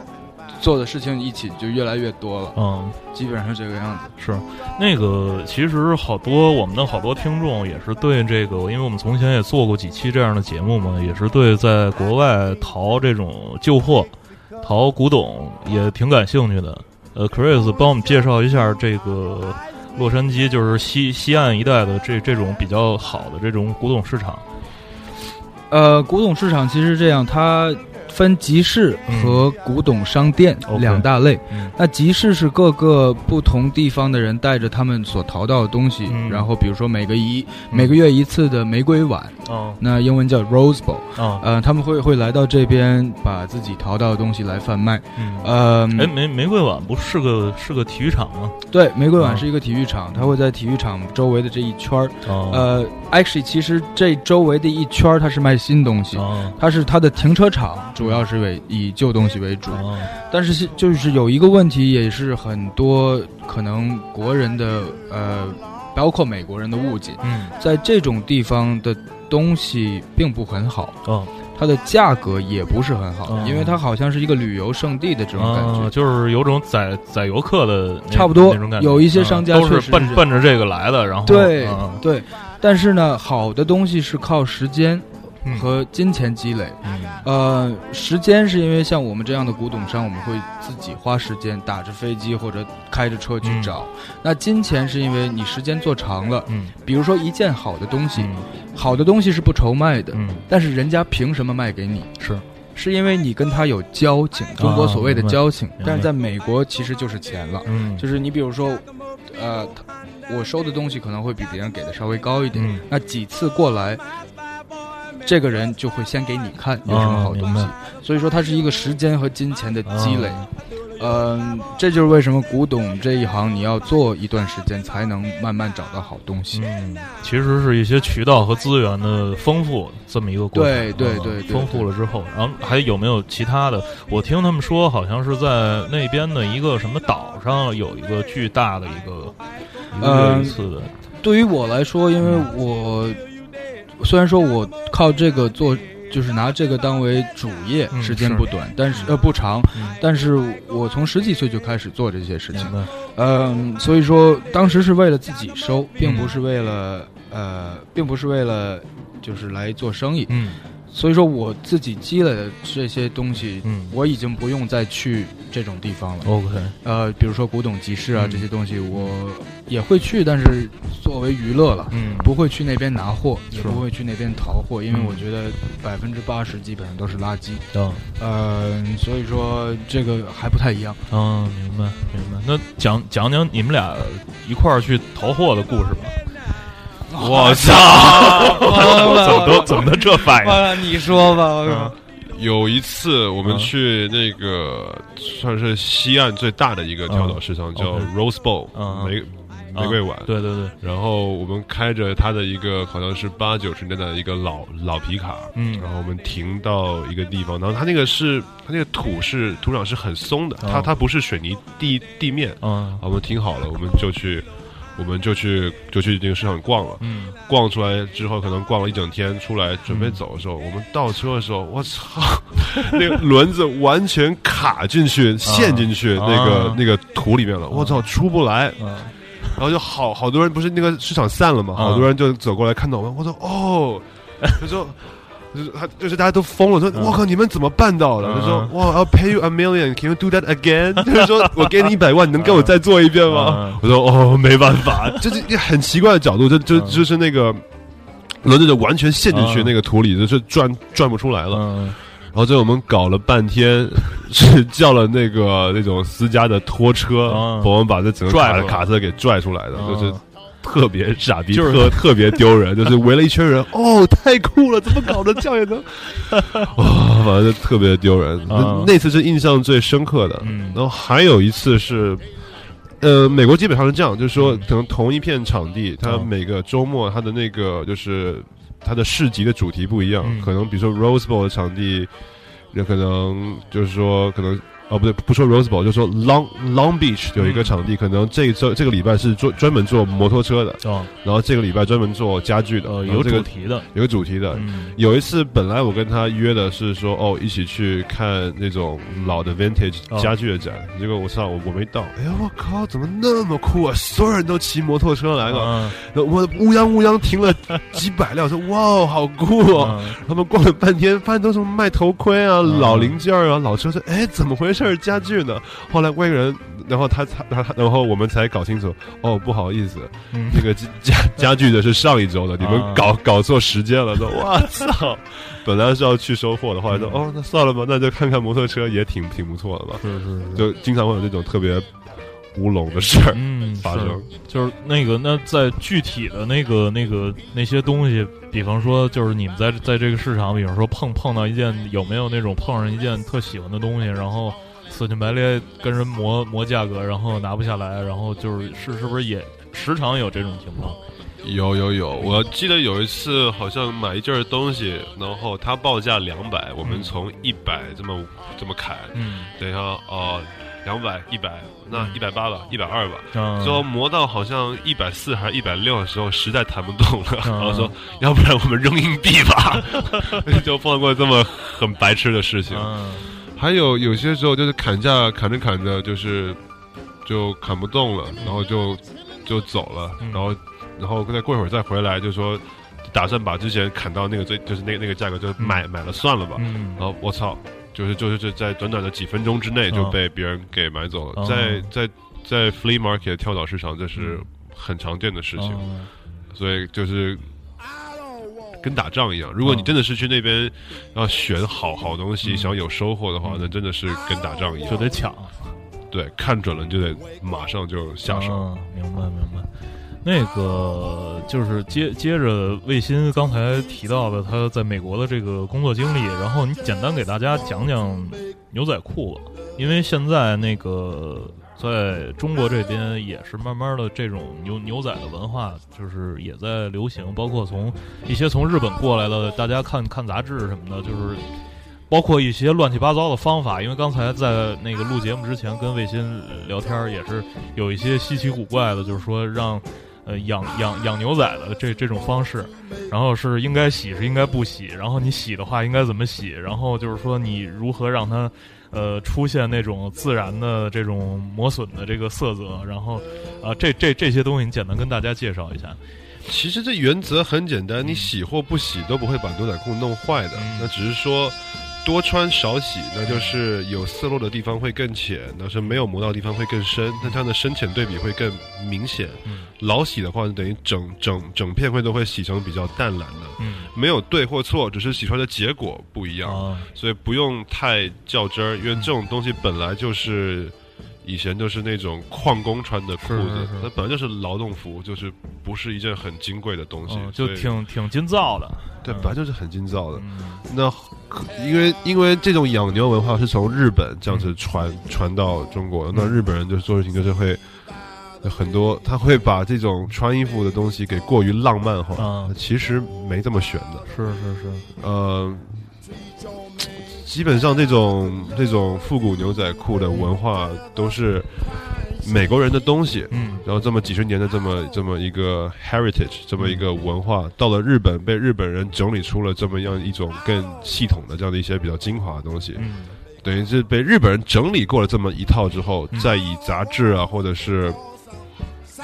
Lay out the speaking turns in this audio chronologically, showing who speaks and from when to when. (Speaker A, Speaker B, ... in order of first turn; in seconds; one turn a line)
Speaker A: 0.6-2.5
Speaker B: 2.5-3.0
Speaker A: 3.1-4.1
Speaker B: 4.2-24.4
Speaker A: 25.7-46.1
Speaker B: 29.1-29.4
Speaker B: 30.7-31.7
Speaker B: 36.1-36.5
Speaker B: 37.7-38.0
Speaker B: 39.4-39.8
Speaker B: 41.1-41.4
Speaker B: 45.2-48.6
Speaker A: 48.7-71.0
Speaker B: 49.2-49.4
Speaker B: 52.2-52.7
Speaker B: 56.1-56.6
Speaker B: 58.0-58.2
Speaker B: 59.7-60.1
Speaker B: 67.2-67.5
Speaker B: 71.0-71.3
Speaker A: 71.5-75.9
Speaker B: 73.3-73.8
Speaker B: 75.3-82.0
Speaker A: 78.1-80.2
Speaker A: 81.2-102.1
Speaker B: 85.4-85.7
Speaker B: 86.8-87.2
Speaker B: 93.4-93.7
Speaker B: 96.5-96.7
Speaker B: 98.2-98.5
Speaker B: 100.1-100.4
Speaker B: 102.2-102.4
Speaker A: 102.7-114.0
Speaker B: 104.6-106.1
Speaker B: 107.7-108.0
Speaker B: 112.5-112.8
Speaker A: 115.2-120.4
Speaker B: 116.8-117.7
Speaker B: 119.8-120.5
Speaker A: 121.0-126.6
Speaker B: 126.5-139.3
Speaker A: 130.5-131.9
Speaker B: 139.9-140.9
Speaker A: 140.0-140.6
Speaker A: 141.2-143.2
Speaker B: 142.2-142.5
Speaker A: 144.0-160.3
Speaker B: 147.9-149.1
Speaker B: 149.7-150.0
Speaker B: 152.5-152.9
Speaker B: 156.0-156.3
Speaker B: 160.3-160.6
Speaker A: 160.9-166.3
Speaker B: 163.6-163.9
Speaker B: 166.2-166.7
Speaker A: 166.8-177.6
Speaker B: 168.1-169.1
Speaker B: 171.9-172.3
Speaker B: 173.5-173.8
Speaker B: 174.9-175.2
Speaker B: 177.7-178.1
Speaker A: 178.2-181.0
Speaker B: 181.1-186.2
Speaker A: 187.1-191.9
Speaker C: 187.2-188.9
Speaker B: 187.5-191.1
Speaker B: 191.6-191.9
Speaker C: 192.2-228.8
Speaker B: 193.4-193.7
Speaker B: 197.1-198.1
Speaker B: 198.7-199.2
Speaker B: 199.7-200.7
Speaker B: 205.6-205.9
Speaker B: 210.6-210.9
Speaker B: 212.6-213.0
Speaker B: 217.0-217.3
Speaker B: 219.9-220.2
Speaker B: 225.4-226.8
Speaker B: 227.7-228.1
Speaker B: 228.8-229.1
Speaker C: 229.6-247.6
Speaker B: 231.7-232.1
Speaker B: 238.2-238.9
Speaker B: 241.1-241.7
Speaker B: 242.4-243.8
Speaker B: 246.7-247.0
Speaker C: 248.4-251.6
Speaker B: 249.3-249.7
Speaker B: 251.5-252.0
Speaker C: 252.3-272.2
Speaker B: 257.2-257.7
Speaker B: 258.3-258.9
Speaker B: 259.7-260.2
Speaker B: 261.5-262.4
Speaker B: 266.3-266.7
Speaker B: 268.5-268.9
Speaker B: 270.4-270.8
Speaker C: 273.0-282.1
Speaker B: 274.4-274.7
Speaker B: 276.0-276.3
Speaker B: 280.2-280.5
Speaker C: 282.7-331.9
Speaker B: 287.4-287.8
Speaker B: 290.8-291.1
Speaker B: 292.8-293.9
Speaker B: 294.5-294.9
Speaker B: 305.4-305.9
Speaker B: 309.7-310.2
Speaker B: 312.6-313.2
Speaker B: 320.3-320.7
Speaker B: 322.6-323.1
Speaker B: 326.9-327.2
Speaker B: 330.0-330.7
Speaker C: 332.5-334.3
Speaker B: 333.3-351.0
Speaker C: 351.4-372.9
Speaker B: 356.8-357.1
Speaker B: 359.1-359.5
Speaker B: 361.9-362.2
Speaker B: 363.3-363.8
Speaker B: 367.4-367.9
Speaker B: 372.7-373.3
Speaker C: 373.6-376.6
Speaker C: 377.2-395.8
Speaker B: 380.2-380.5
Speaker B: 385.6-385.8
Speaker B: 386.5-387.0
Speaker B: 389.9-390.2
Speaker B: 391.4-391.9
Speaker B: 394.1-394.4
Speaker B: 395.6-396.1
Speaker C: 396.5-397.4
Speaker C: 398.8-405.1
Speaker B: 399.6-399.9
Speaker B: 402.4-402.7
Speaker B: 403.4-403.7
Speaker B: 404.9-405.7
Speaker C: 406.1-408.6
Speaker B: 408.3-409.7
Speaker B: 410.2-431.4
Speaker B: 432.1-456.0
Speaker C: 456.4-487.7
Speaker B: 458.0-458.3
Speaker B: 460.5-460.9
Speaker B: 463.2-463.6
Speaker B: 473.6-473.9
Speaker B: 476.4-476.9
Speaker B: 483.2-483.9
Speaker B: 487.1-489.4
Speaker C: 489.0-497.6
Speaker B: 490.1-490.6
Speaker B: 496.1-496.4
Speaker C: 498.4-504.1
Speaker B: 502.2-502.5
Speaker B: 504.1-504.9
Speaker C: 505.0-505.9
Speaker C: 507.1-522.8
Speaker B: 513.3-513.6
Speaker B: 516.6-516.8
Speaker B: 522.8-523.2
Speaker C: 523.4-528.0